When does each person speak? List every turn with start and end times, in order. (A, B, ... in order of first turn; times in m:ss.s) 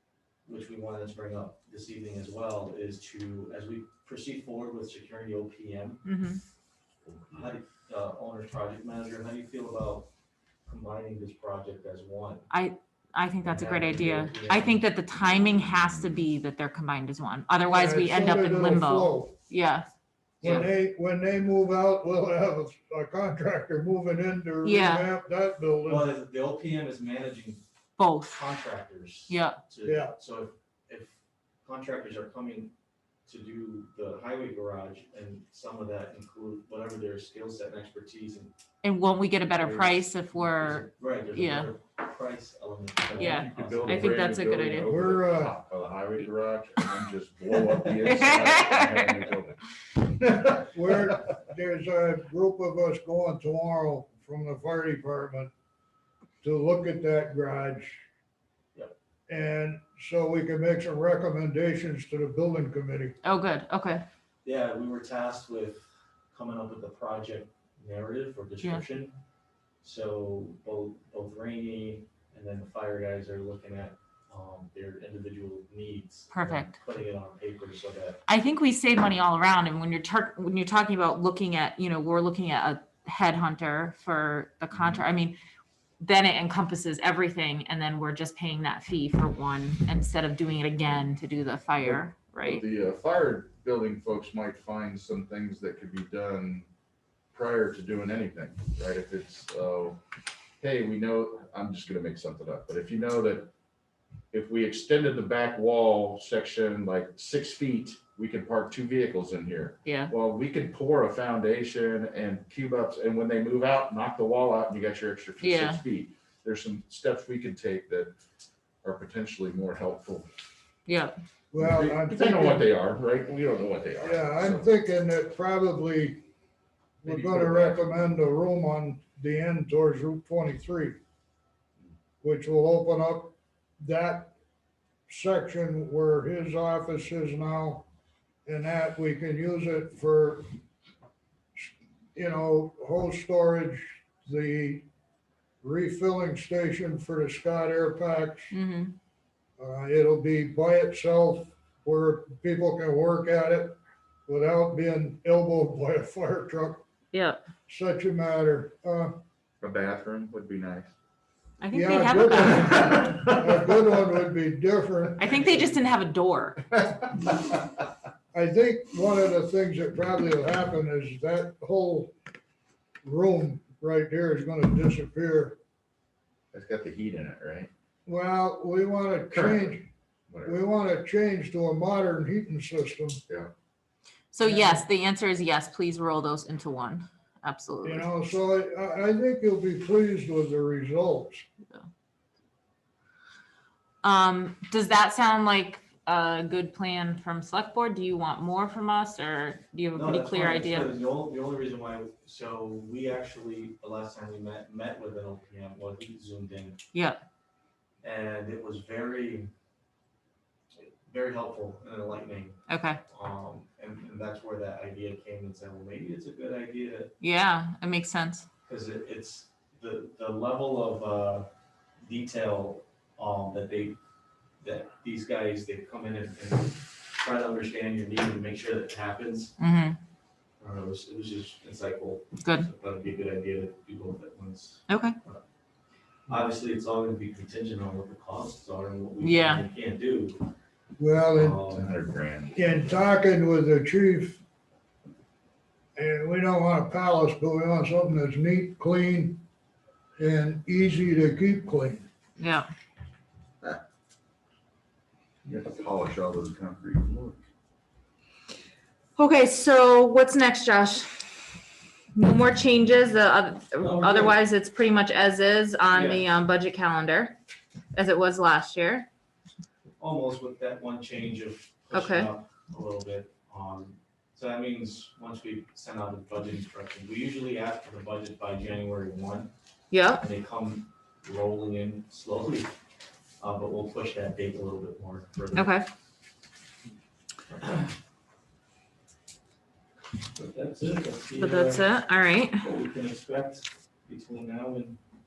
0:00.5-0:06.0 A
0:06.0-0:06.4 B
0:07.1-0:07.5 C
0:07.3-0:10.1 A
0:10.7-0:12.5 A
0:12.5-0:19.9 B
0:13.5-0:14.8 A
0:17.7-0:19.4 D
0:20.4-0:26.1 D
0:20.4-0:20.7 A
0:24.6-0:25.1 B
0:25.8-0:27.6 A
0:28.0-0:28.4 B
0:28.3-0:32.7 A
0:29.3-0:29.6 B
0:29.8-0:30.1 D
0:33.3-0:38.5 A
0:38.8-0:41.7 B
0:39.5-0:44.1 A
0:43.2-0:45.0 B
0:43.2-0:49.6 C
0:44.9-0:45.6 D
0:47.9-0:49.3 B
0:50.4-0:55.5 D
0:56.4-0:58.0 D
0:59.3-1:03.2 D
1:03.2-1:04.0 B
1:04.4-1:09.2 A
1:09.8-1:18.2 A
1:16.3-1:16.8 B
1:18.3-1:25.4 B
1:24.7-1:25.0 C
1:26.0-1:32.6 B
1:31.8-1:36.7 C
1:37.3-1:40.0 C
1:40.6-1:43.5 C
1:44.3-1:58.1 C
1:49.8-1:50.1 B
1:55.4-1:55.8 B
1:58.8-2:00.3 C
2:00.9-2:01.1 B
2:01.5-2:02.7 D
2:01.5-2:04.7 C
2:04.0-2:06.2 D
2:07.0-2:11.0 D
2:07.0-2:07.9 C
2:12.2-2:14.3 D
2:15.1-2:17.9 D
2:18.5-2:20.6 D
2:21.6-2:24.9 D
2:25.6-2:28.5 D
2:28.5-2:29.0 B
2:29.6-2:36.9 D
2:37.1-2:37.4 B
2:37.7-2:39.2 D
2:39.6-2:40.9 C
2:41.6-2:43.0 B
2:41.7-2:45.6 D
2:42.7-2:43.7 C
2:45.2-2:46.6 B
2:48.3-2:52.1 D
2:53.0-2:55.6 D
2:56.5-2:57.7 C
2:58.1-2:59.9 D
2:59.3-2:59.8 C
3:00.3-3:00.6 C
3:00.5-3:03.2 D
3:04.3-3:08.1 B
3:04.4-3:04.8 D
3:07.8-3:11.4 D
3:14.0-3:21.0 B
3:20.0-3:26.8 A
3:26.9-3:27.2 B
3:28.0-3:29.5 A
3:30.8-3:37.1 A
3:32.7-3:33.0 B
3:37.2-3:38.4 B
3:38.7-3:44.0 A
3:44.6-3:49.6 A
3:49.6-3:50.0 B
3:50.6-3:55.4 A
3:52.4-3:52.7 B
3:54.9-3:55.2 B
3:56.3-4:00.5 A
3:59.2-3:59.6 B
4:01.0-4:01.6 D
4:01.3-4:01.9 A
4:01.7-4:02.6 C
4:02.6-4:04.4 D
4:06.0-4:09.4 D
4:10.2-4:12.1 D
4:12.4-4:12.7 B
4:15.4-4:17.4 C
4:19.2-4:21.2 B
4:22.1-4:27.4 B
4:23.8-4:24.4 A
4:25.9-4:26.2 A
4:27.9-4:29.1 B
4:30.0-4:39.5 A
4:31.9-4:32.3 B
4:39.9-4:40.3 B
4:40.2-4:42.8 A
4:43.4-4:45.7 A
4:45.5-4:45.9 B
4:47.6-4:47.9 A
4:50.4-4:51.9 A
4:51.4-4:52.6 B
4:52.6-4:55.0 A